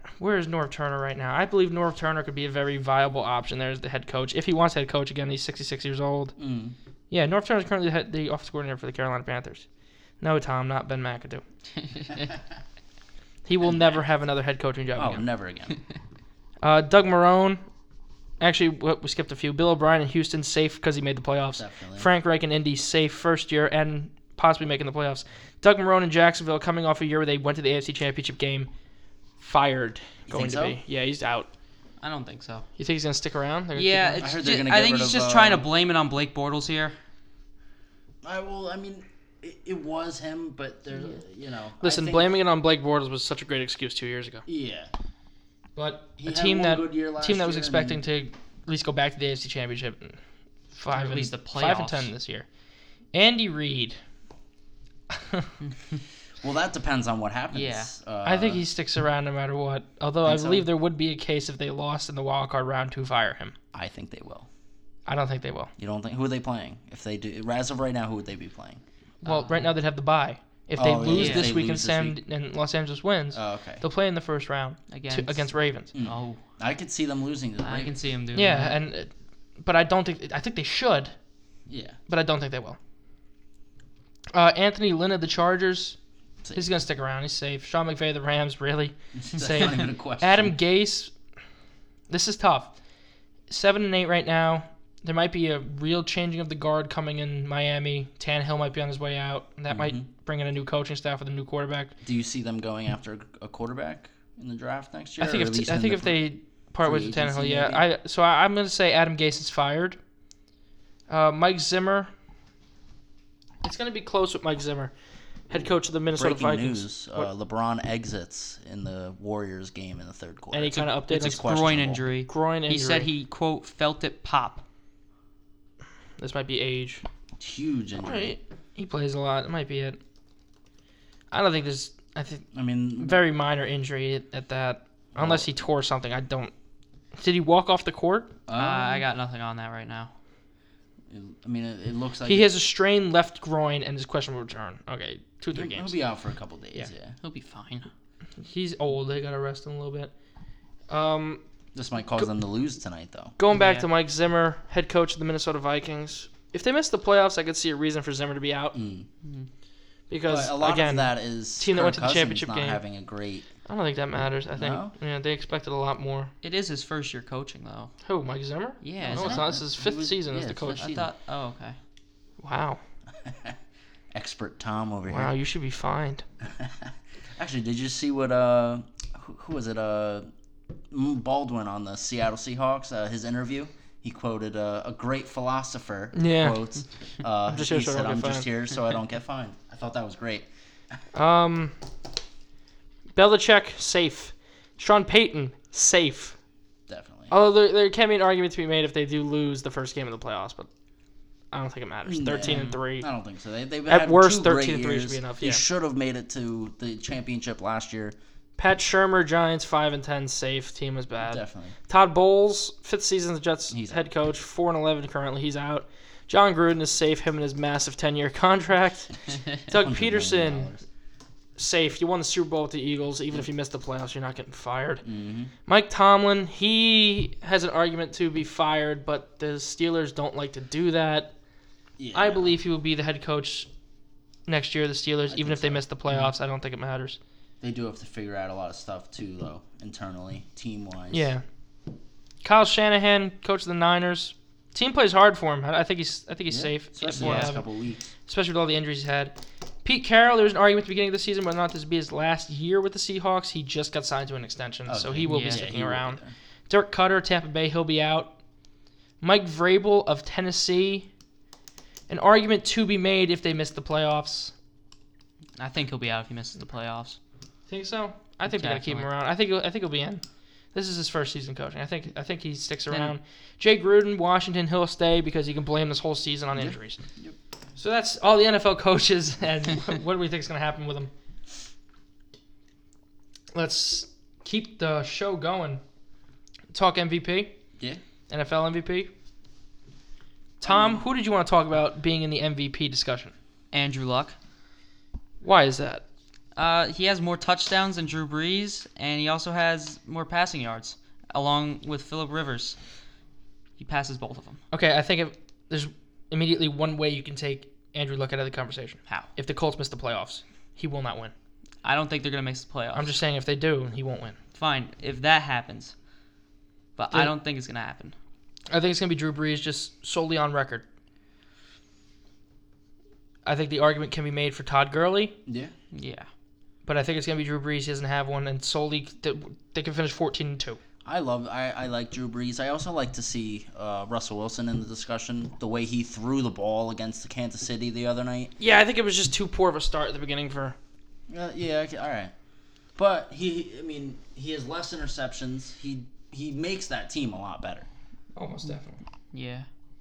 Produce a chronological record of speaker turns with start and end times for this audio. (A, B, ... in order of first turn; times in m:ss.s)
0:00.2-0:06.3 A
0:06.4-0:06.8 B
0:07.1-0:09.6 A
0:10.2-0:11.4 A
0:13.4-0:15.3 A
0:15.0-0:15.8 B
0:16.6-0:17.6 A
0:18.4-0:28.7 A
0:21.5-0:22.1 B
0:29.4-0:31.5 A
0:30.3-0:30.8 B
0:32.0-0:32.7 C
0:32.8-0:34.3 A
0:33.7-0:37.0 C
0:34.2-0:35.6 B
0:38.2-0:42.3 B
0:41.8-0:44.4 A
0:44.5-0:44.9 B
0:45.8-0:50.2 A
0:46.2-0:48.0 B
0:50.7-0:52.4 A
0:50.9-0:52.1 C
0:53.1-0:54.0 A
0:55.1-0:55.5 A
0:55.6-0:56.0 C
0:56.4-0:58.6 B
0:57.5-0:57.9 C
0:58.2-1:03.6 A
1:00.2-1:00.7 B
1:03.7-1:04.5 B
1:05.0-1:05.7 A
1:05.8-1:08.8 B
1:09.2-1:15.9 A
1:09.2-1:09.7 C
1:10.8-1:12.2 B
1:11.1-1:11.5 C
1:13.3-1:13.8 B
1:14.9-1:16.4 C
1:15.9-1:18.0 B
1:17.6-1:18.8 C
1:18.3-1:21.1 A
1:21.7-1:22.0 B
1:22.1-1:22.8 A
1:24.3-1:26.0 A
1:26.5-1:31.1 A
1:29.1-1:30.6 B
1:32.1-1:32.7 A
1:33.5-1:41.9 A
1:39.7-1:40.0 B
1:42.0-1:46.2 B
1:45.2-1:50.0 A
1:46.8-1:47.8 B
1:51.1-1:52.1 A
1:53.6-1:54.9 A
1:55.5-1:57.3 A
1:56.1-2:02.0 B
2:00.5-2:01.4 A
2:01.1-2:04.6 C
2:02.3-2:03.1 A
2:06.2-2:07.0 A
2:07.4-2:08.4 B
2:08.0-2:10.0 A
2:11.3-2:16.5 A
2:12.5-2:13.2 B
2:15.1-2:15.5 B
2:17.2-2:18.3 A
2:18.5-2:19.0 B
2:18.5-2:20.1 C
2:21.1-2:22.5 B
2:22.2-2:26.0 A
2:25.5-2:27.1 B
2:27.2-2:27.9 C
2:28.4-2:30.1 A
2:30.9-2:31.4 A
2:31.7-2:33.4 B
2:33.4-2:38.8 A
2:33.5-2:33.9 C
2:38.7-2:39.1 B
2:40.1-2:42.8 A
2:40.3-2:43.5 B
2:43.6-2:46.3 A
2:44.5-2:44.9 B
2:46.4-2:47.9 C
2:48.0-2:50.8 A
2:48.8-2:49.6 C
2:49.0-2:51.1 B
2:50.7-2:51.8 C
2:52.4-2:52.8 A
2:53.2-2:53.6 B
2:54.1-2:55.3 B
2:55.1-2:56.2 A
2:56.4-3:00.3 B
3:00.9-3:10.4 B
3:06.1-3:06.6 A
3:07.4-3:08.5 A
3:11.1-3:11.7 A
3:13.2-3:16.4 A
3:16.9-3:17.3 B
3:17.3-3:20.7 A
3:21.5-3:23.1 A
3:22.0-3:28.1 B
3:22.4-3:22.8 C
3:23.9-3:25.6 A
3:28.6-3:40.7 A
3:31.2-3:31.7 B
3:33.7-3:34.1 B
3:39.7-3:40.8 B
3:41.6-3:45.0 A
3:45.0-3:45.5 B
3:45.6-3:51.3 A
3:52.0-3:52.5 B
3:52.1-3:53.7 A
3:54.5-3:57.2 A
3:55.3-3:55.8 B
3:57.6-4:01.3 B
4:01.1-4:01.4 A
4:02.4-4:07.7 A
4:06.5-4:08.0 B
4:07.2-4:07.5 C
4:08.2-4:18.4 A
4:14.8-4:16.3 B
4:15.2-4:15.6 C
4:19.2-4:21.1 A
4:22.1-4:24.5 A
4:25.6-4:27.2 C
4:27.7-4:30.2 A
4:28.5-4:29.1 C
4:30.7-4:37.0 A
4:32.9-4:33.1 C
4:36.5-4:37.4 B
4:37.8-4:41.1 A
4:43.5-4:45.8 A
4:46.7-4:47.6 A
4:48.3-4:49.1 A
4:50.6-4:53.3 A
4:50.7-4:51.0 B
4:53.7-4:54.4 C
4:55.4-4:56.0 A
4:56.6-5:02.8 C
5:03.8-5:04.6 C
5:04.7-5:11.3 A
5:11.8-5:13.2 C
5:12.9-5:14.4 A
5:14.5-5:15.9 C
5:17.0-5:18.1 C
5:18.7-5:20.8 A
5:23.4-5:25.4 A
5:25.4-5:25.7 B
5:25.9-5:26.3 C
5:26.8-5:30.8 A
5:31.0-5:38.5 B
5:38.6-5:40.8 A
5:41.3-5:42.3 B
5:43.0-5:47.8 B
5:48.4-5:49.0 A
5:49.3-5:49.7 C